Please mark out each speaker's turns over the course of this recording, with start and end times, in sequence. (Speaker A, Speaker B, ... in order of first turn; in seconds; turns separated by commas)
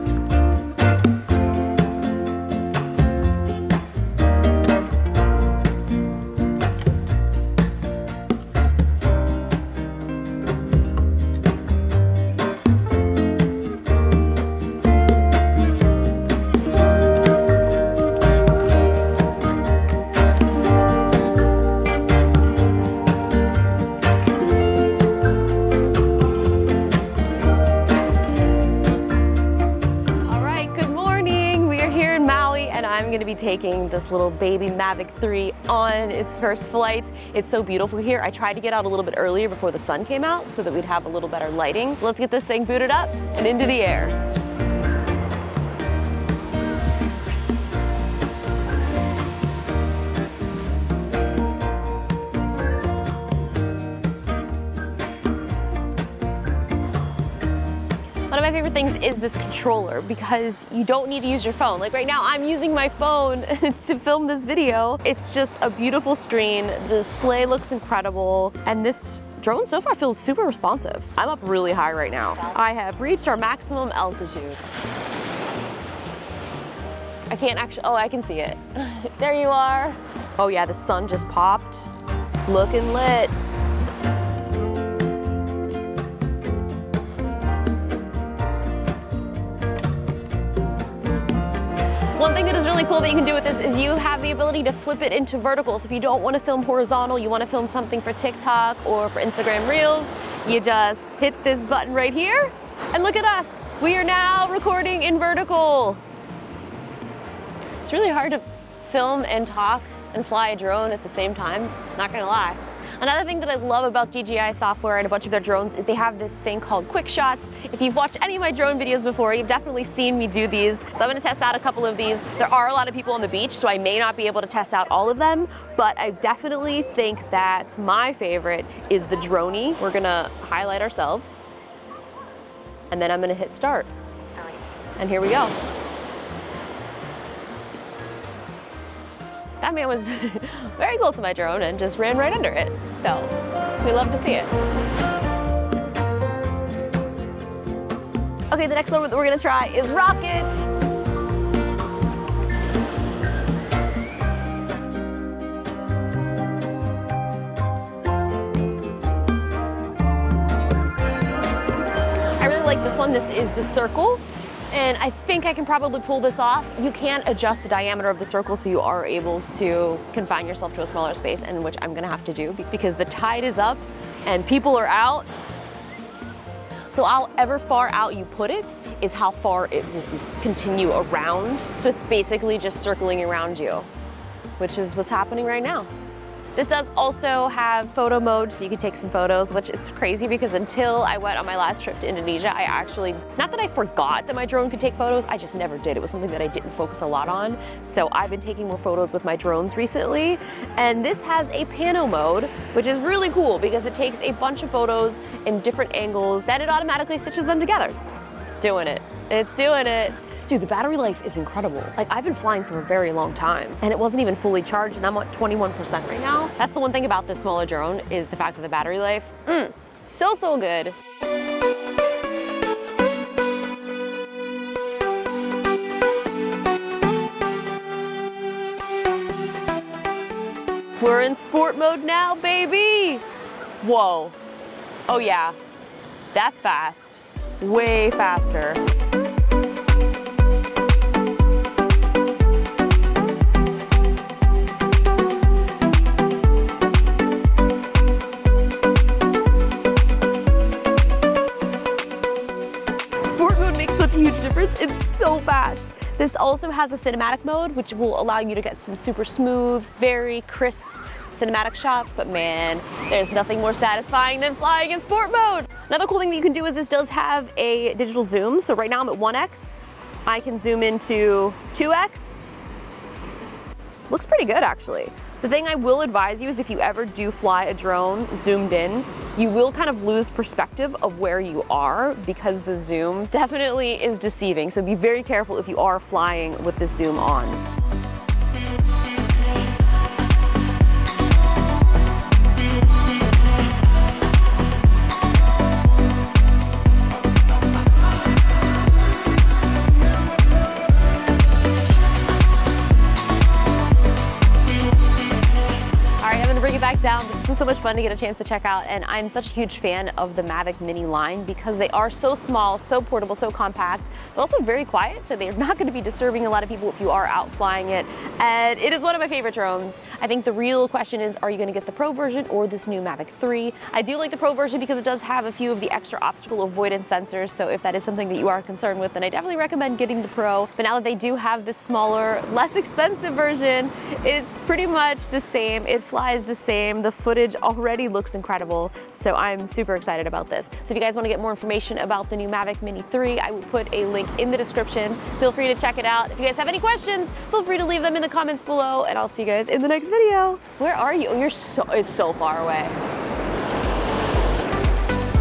Speaker A: 30.2-44.1, Speaker A: 58.3-74.6, Speaker A: 77.3-81.9, Speaker A: 82.5-83.3, Speaker A: 92.1-106.0, Speaker A: 107.8-131.5, Speaker A: 132.9-133.9, Speaker A: 134.9-135.6, Speaker A: 139.6-144.5, Speaker A: 148.5-150.5, Speaker A: 162.3-175.3, Speaker A: 176.9-183.9, Speaker A: 184.6-185.9, Speaker A: 186.5-220.9, Speaker A: 231.0-233.2, Speaker A: 233.8-234.3, Speaker A: 235.1-235.6, Speaker A: 236.3-238.8, Speaker A: 253.2-272.4, Speaker A: 274.1-287.6, Speaker A: 306.2-353.0